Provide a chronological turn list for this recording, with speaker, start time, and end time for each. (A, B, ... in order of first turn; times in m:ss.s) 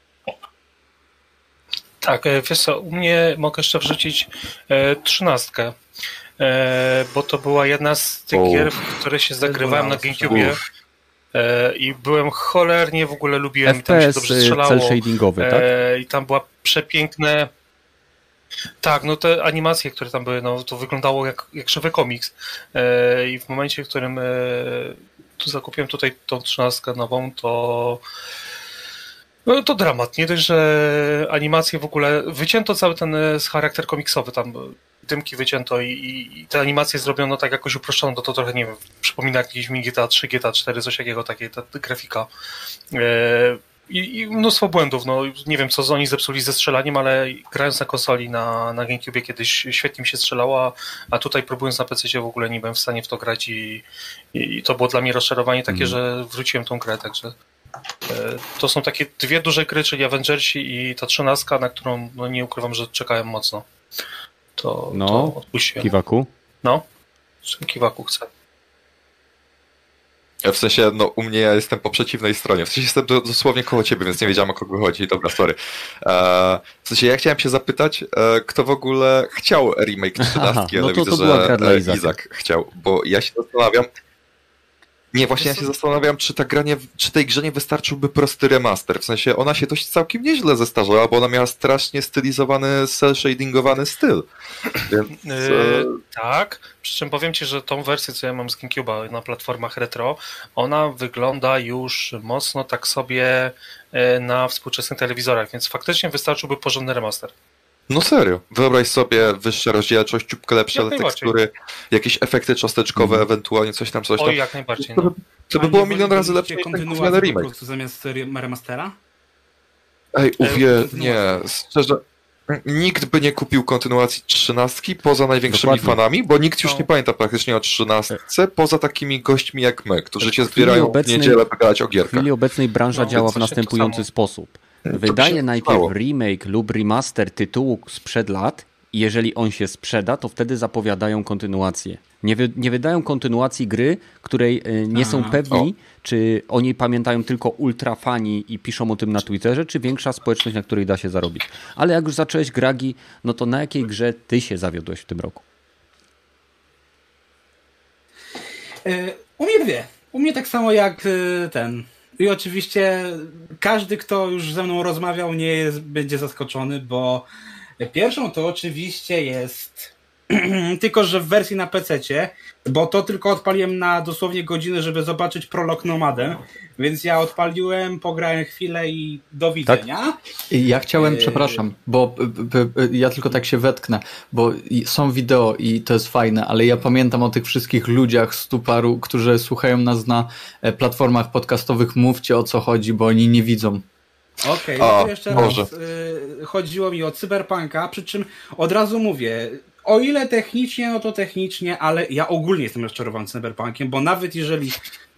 0:02.0-0:05.8 A
0:06.4-0:10.6 A
0:08.3-0:08.7 B
0:09.5-0:10.5 B
0:11.3-0:17.5 A
0:13.6-0:15.7 B
0:18.8-0:28.0 A
0:29.4-0:42.3 A
0:42.9-0:57.3 A
0:55.7-0:56.0 B
0:58.1-1:03.6 A
1:04.6-1:05.9 A
1:04.9-1:06.3 B
1:07.4-1:08.3 A
1:10.4-1:23.9 C
1:20.2-1:22.2 B
1:25.1-1:34.2 C
1:25.4-1:25.7 A
1:34.8-1:36.0 C
1:35.2-1:47.3 A
1:47.9-1:57.5 C
1:50.7-1:51.3 A
1:53.0-1:53.2 B
1:54.2-1:55.1 A
1:55.6-1:59.0 D
2:00.1-2:12.3 C
2:00.6-2:01.4 D
2:05.5-2:06.0 B
2:10.2-2:11.4 B
2:12.1-2:35.4 B
2:12.9-2:14.0 A
2:14.9-2:15.9 C
2:24.9-2:25.4 D
2:38.8-2:47.2 D
2:47.8-3:00.2 D
3:00.5-3:13.8 E
3:01.0-3:01.6 D
3:14.4-3:24.8 D
3:14.8-3:15.7 C